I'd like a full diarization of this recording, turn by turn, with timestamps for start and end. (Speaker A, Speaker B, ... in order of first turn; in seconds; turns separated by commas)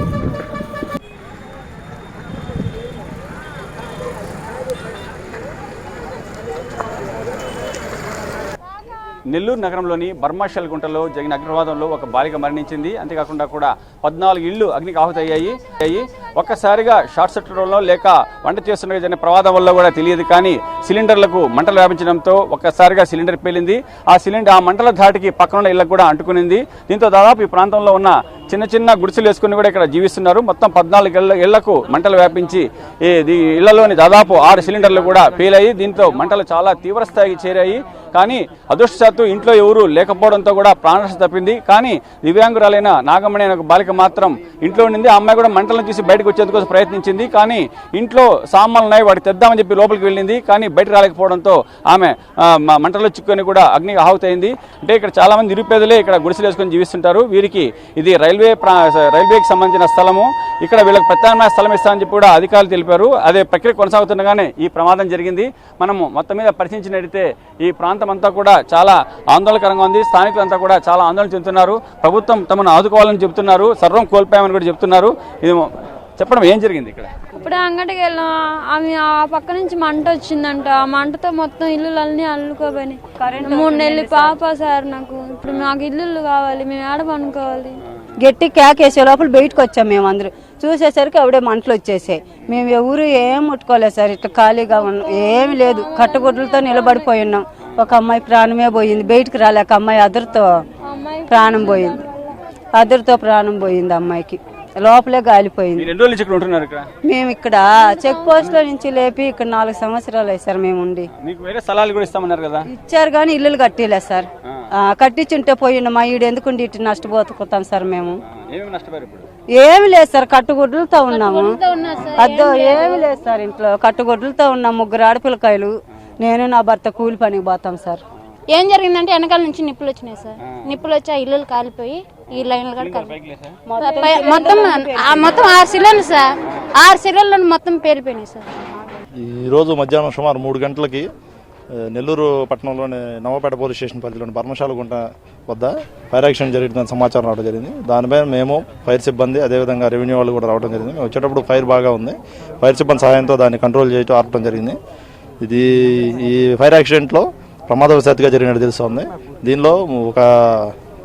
Speaker A: 9.3-77.1, Speaker B: 77.3-87.8, Speaker C: 83.2-84.4, Speaker C: 88.2-100.6, Speaker B: 94.8-97.2, Speaker B: 100.8-102.3, Speaker C: 101.3-102.0, Speaker C: 102.7-105.8, Speaker A: 105.8-106.9, Speaker C: 107.0-111.1, Speaker B: 107.7-108.5, Speaker A: 111.2-112.7, Speaker C: 112.7-118.2, Speaker A: 118.4-119.2, Speaker C: 119.5-121.6, Speaker D: 121.0-123.1, Speaker C: 122.2-128.0, Speaker D: 128.5-133.1, Speaker A: 130.4-130.8, Speaker A: 132.8-133.6, Speaker C: 133.7-135.5, Speaker D: 133.8-139.0, Speaker E: 139.2-141.1, Speaker E: 141.7-154.8, Speaker E: 155.4-160.7